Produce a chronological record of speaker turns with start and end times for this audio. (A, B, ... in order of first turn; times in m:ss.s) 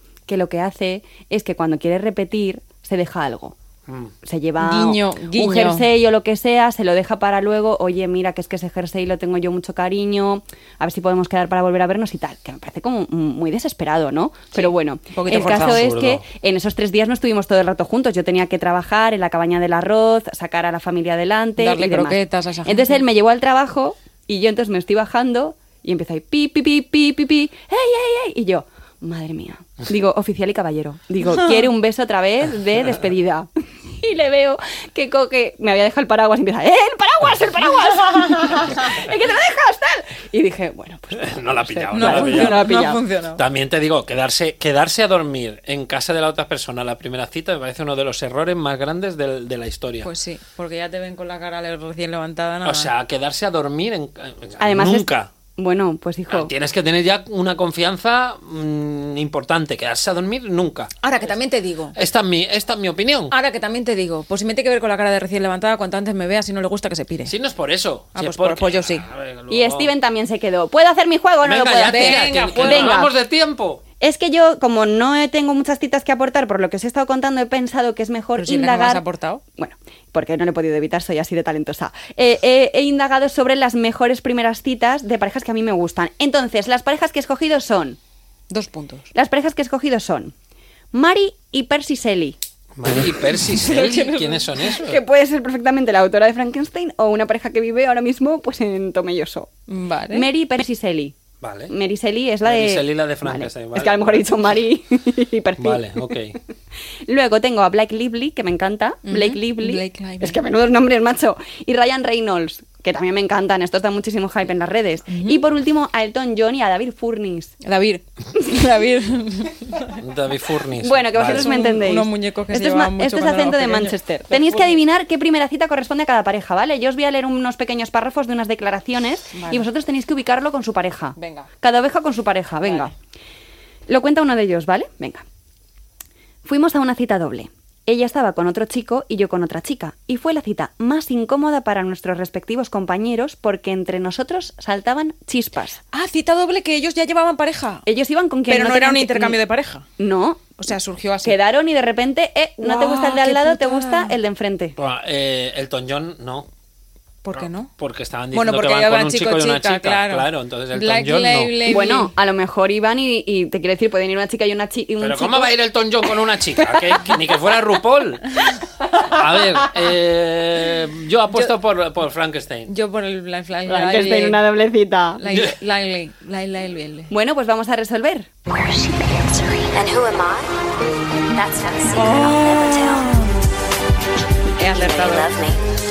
0:00.3-0:03.6 A
0:03.9-0:04.1 B
0:04.2-0:43.0 A
0:04.6-0:05.9 C
0:14.6-0:15.8 C
0:15.4-0:16.2 B
0:21.6-0:23.0 C
0:31.2-0:31.7 C
0:41.2-0:42.7 B
0:41.9-0:43.4 C
0:43.4-0:50.1 B
0:50.0-0:52.9 C
0:52.6-0:55.3 B
0:54.6-0:56.5 A
0:56.3-1:00.9 B
1:01.0-1:02.0 C
1:02.0-1:03.3 B
1:03.3-1:07.3 C
1:07.3-1:09.9 B
1:08.2-1:09.1 C
1:09.5-1:13.1 A
1:11.4-1:13.8 B
1:11.8-1:13.1 C
1:14.0-1:19.0 A
1:18.4-1:19.4 C
1:19.6-1:28.0 A
1:28.5-1:29.1 C
1:29.2-1:30.3 A
1:30.9-1:32.4 A
1:32.8-1:35.0 B
1:33.6-1:34.5 C
1:34.7-1:39.5 A
1:39.7-1:40.3 C
1:40.1-1:41.2 A
1:41.4-1:41.7 B
1:41.7-1:46.2 A
1:42.4-1:44.2 B
1:45.6-1:46.4 B
1:47.1-1:57.5 A
1:49.1-1:50.4 C
1:55.1-1:55.4 C
1:57.6-2:00.0 C
2:00.0-2:01.5 B
2:00.8-2:12.9 A
2:01.2-2:04.8 C
2:09.3-2:09.7 C
2:11.2-2:11.5 C
2:12.7-2:12.9 C
2:13.9-2:15.2 A
2:16.4-2:25.8 A
2:25.9-2:27.8 C
2:27.9-2:29.4 A
2:28.5-2:29.8 C
2:30.0-2:30.5 A
2:30.6-2:31.4 C
2:31.2-2:34.8 A
2:32.6-2:34.1 C
2:34.8-2:36.5 B
2:37.2-2:37.7 C
2:37.3-2:41.6 B
2:38.3-2:42.1 C
2:41.6-2:45.6 A
2:45.0-2:48.4 B
2:49.0-2:52.7 B
2:52.7-2:54.4 C
2:53.7-2:55.2 A
2:55.2-2:57.1 C
2:57.1-2:58.3 A
2:58.5-3:00.5 D
3:01.3-3:03.0 D
3:01.8-3:03.3 C
3:04.6-3:05.3 C
3:05.0-3:05.5 D